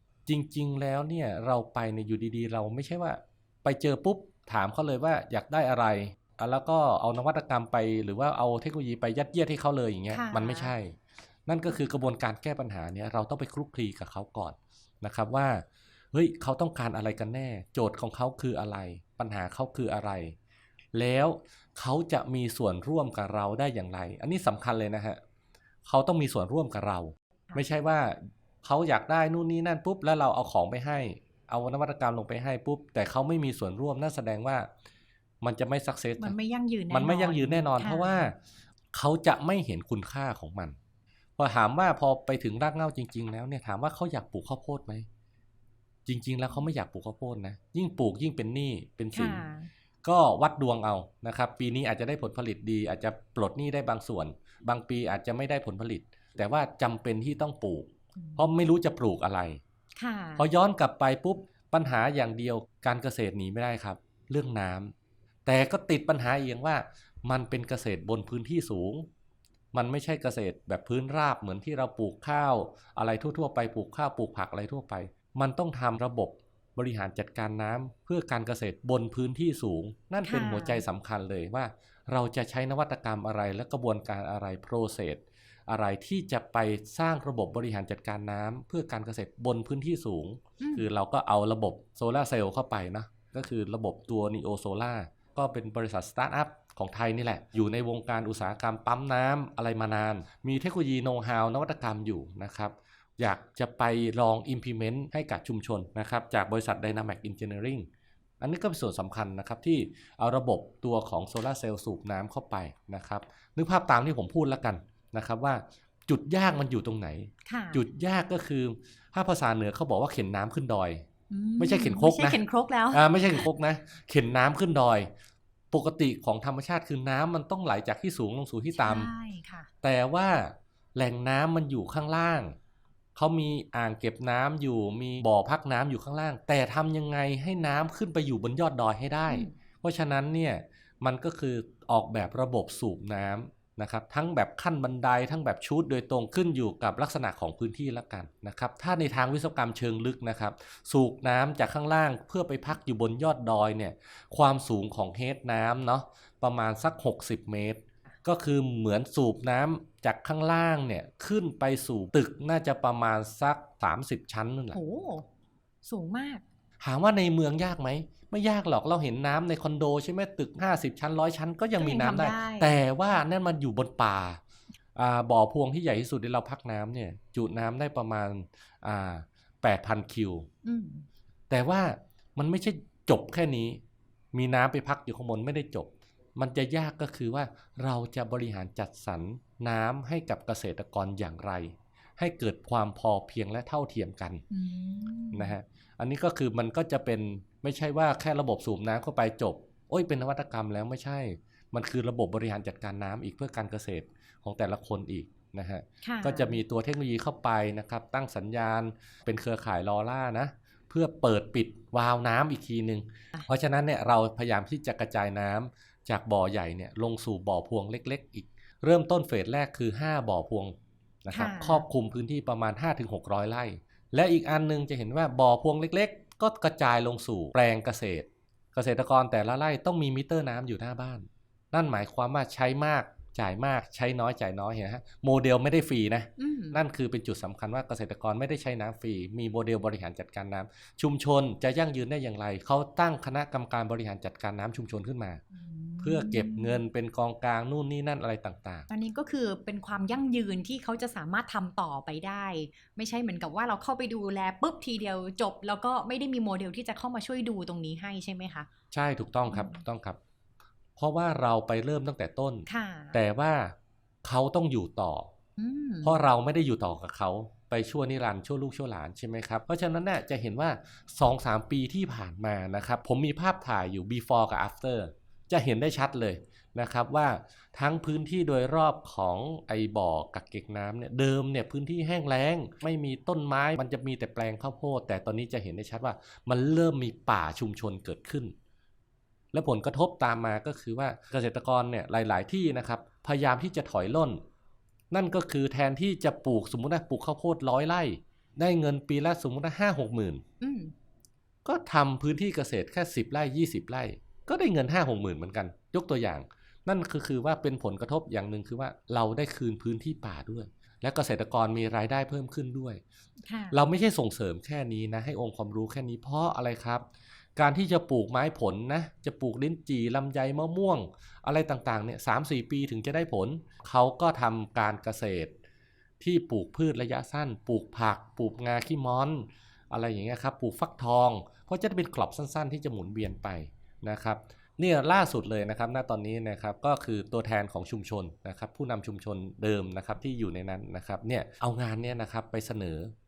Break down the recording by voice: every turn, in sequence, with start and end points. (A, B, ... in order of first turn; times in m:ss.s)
0:00.2-0:20.4 A
0:10.1-0:10.7 B
0:20.9-0:25.2 A
0:25.8-0:34.7 A
0:35.4-0:36.3 A
0:36.2-0:38.3 B
0:36.9-0:38.4 A
0:38.9-0:40.8 A
0:41.4-0:45.0 A
0:46.0-0:49.4 A
0:49.1-0:49.7 B
0:50.0-0:59.6 A
0:58.2-0:58.4 B
1:00.0-1:00.5 B
1:00.4-1:04.9 A
1:05.4-1:09.1 A
1:09.7-1:47.9 A
1:20.2-1:20.8 B
1:30.6-1:30.9 B
1:48.4-2:01.1 A
1:57.4-1:57.8 B
2:01.3-2:03.5 B
2:01.6-2:02.4 A
2:02.9-2:05.1 A
2:05.7-2:09.1 A
2:08.7-2:09.7 B
2:09.8-2:12.6 A
2:13.1-2:44.8 A
2:19.3-2:19.5 B
2:44.7-2:45.3 B
2:45.8-2:46.4 B
2:46.8-2:54.4 A
2:51.8-2:52.8 B
2:55.0-3:00.5 A
3:00.6-3:01.0 B
3:01.5-3:03.8 A
3:04.3-3:14.4 A
3:14.5-3:15.5 B
3:15.3-4:05.4 A
3:26.0-3:26.6 B
3:41.3-3:41.8 B
3:56.4-3:56.8 B
4:05.5-4:06.8 B
4:06.0-4:08.9 A
4:08.9-4:18.7 B
4:18.9-4:20.2 A
4:19.5-4:19.8 B
4:21.0-4:25.3 A
4:22.7-4:23.2 B
4:25.6-4:26.2 B
4:26.0-4:48.5 A
4:49.5-4:54.4 A
4:55.1-5:00.4 A
5:00.6-5:00.9 B
5:01.6-5:13.0 A
5:13.4-5:13.8 B
5:13.7-5:25.5 A
5:26.2-5:43.1 A